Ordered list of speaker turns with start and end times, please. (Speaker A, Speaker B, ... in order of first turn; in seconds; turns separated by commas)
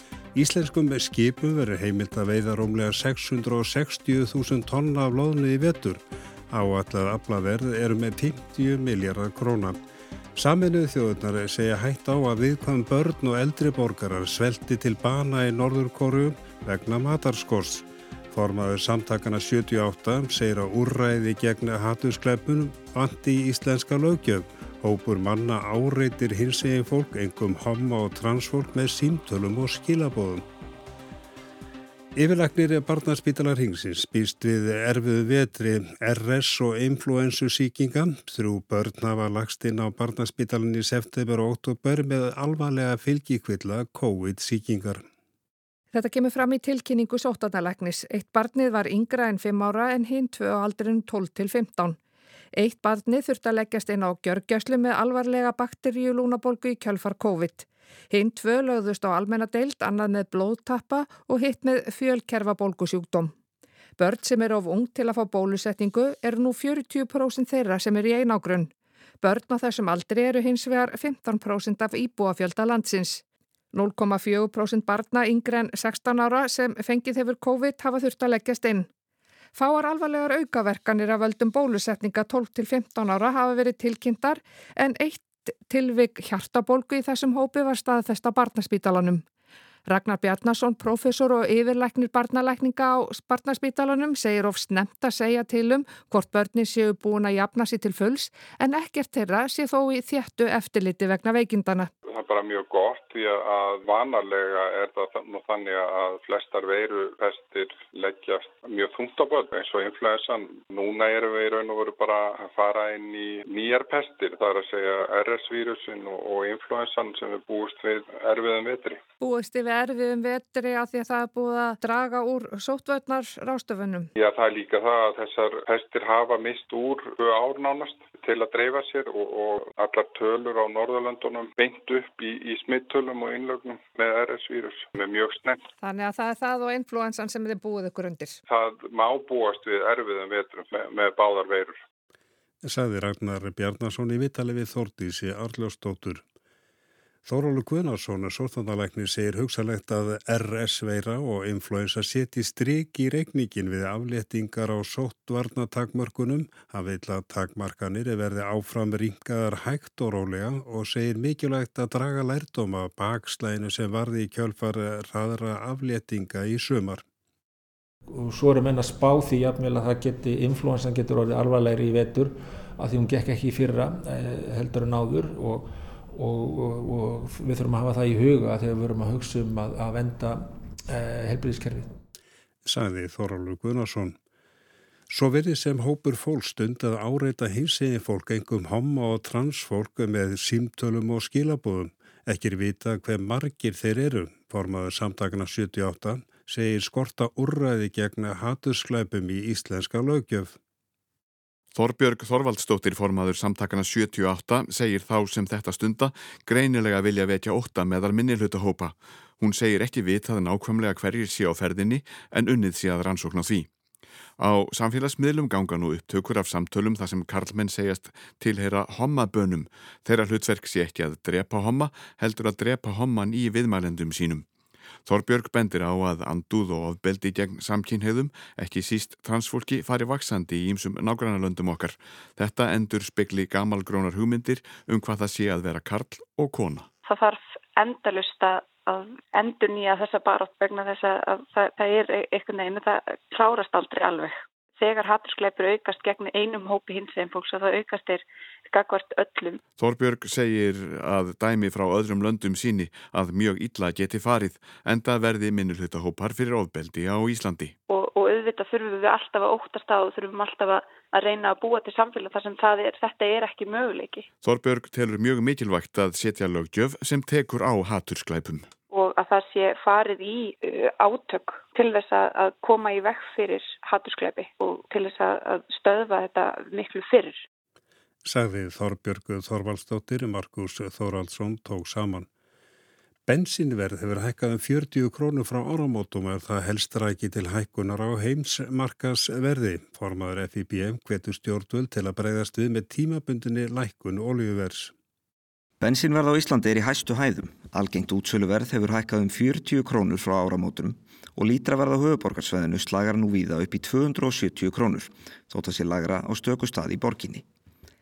Speaker A: 0.3-9.8, Speaker A: 10.4-30.4, Speaker A: 32.1-45.0, Speaker B: 45.9-52.0, Speaker B: 52.6-63.3, Speaker B: 64.0-78.9, Speaker B: 79.5-89.2, Speaker B: 89.9-101.9, Speaker C: 102.1-119.0, Speaker B: 119.2-124.1, Speaker C: 124.2-135.6, Speaker B: 135.8-138.4, Speaker C: 138.5-141.8, Speaker A: 142.6-146.2, Speaker A: 147.2-167.0, Speaker D: 168.1-181.9, Speaker A: 182.7-184.2, Speaker A: 185.1-200.6, Speaker E: 201.7-213.7, Speaker E: 214.4-224.5, Speaker E: 225.1-236.9, Speaker F: 237.1-249.6, Speaker E: 249.8-257.8, Speaker F: 257.9-264.3, Speaker E: 264.4-268.7, Speaker F: 268.9-277.4, Speaker A: 278.2-282.3, Speaker A: 283.3-294.9, Speaker G: 295.8-307.4